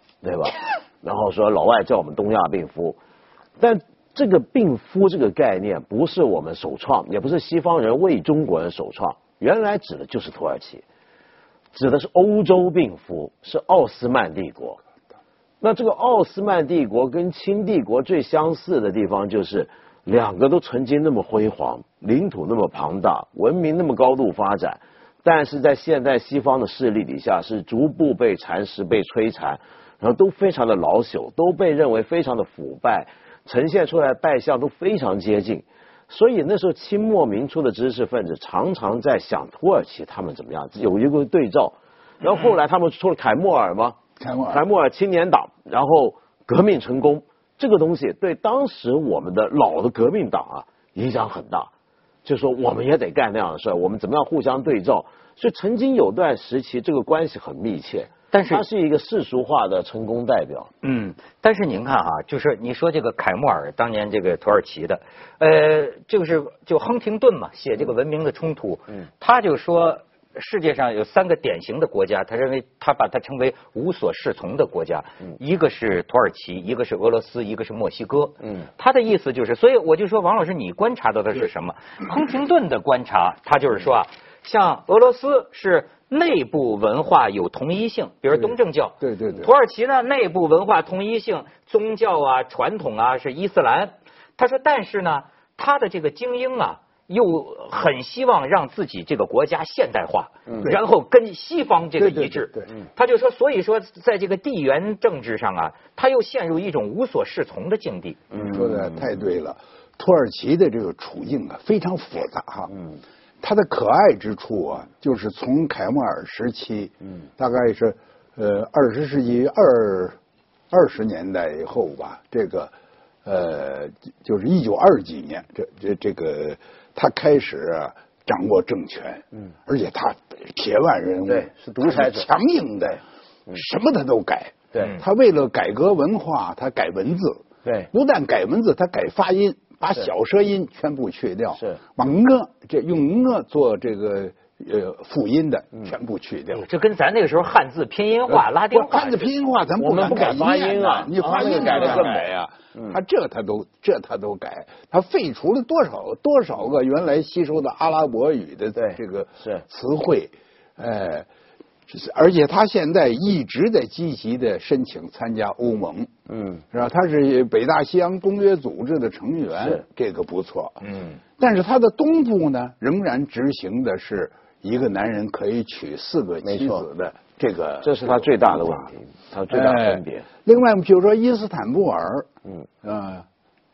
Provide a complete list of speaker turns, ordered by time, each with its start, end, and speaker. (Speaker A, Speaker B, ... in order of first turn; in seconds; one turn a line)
Speaker A: 0.2-3.0
Speaker A: 3.6-10.8
Speaker A: 11.7-14.8
Speaker A: 15.6-44.0
Speaker B: 44.2-44.6
Speaker A: 44.5-51.7
Speaker A: 52.2-60.7
Speaker C: 58.3-58.6
Speaker C: 60.8-108.2
Speaker B: 88.3-89.5
Speaker B: 102.0-102.7
Speaker A: 108.3-109.1
Speaker B: 108.4-112.7
Speaker B: 113.4-120.2
Speaker B: 120.7-122.7
Speaker B: 123.2-146.6
Speaker A: 131.2-132.3
Speaker A: 137.6-137.9
Speaker C: 146.5-149.3
Speaker B: 148.3-161.3
Speaker A: 149.8-152.9
Speaker C: 151.2-152.2
Speaker A: 158.8-159.6
Speaker B: 161.9-166.1
Speaker A: 166.3-166.6
Speaker B: 166.7-170.8
Speaker C: 170.8-171.2
Speaker B: 171.4-178.9
Speaker A: 176.4-176.8
Speaker A: 177.8-180.2
Speaker B: 179.5-182.3
Speaker B: 182.8-183.2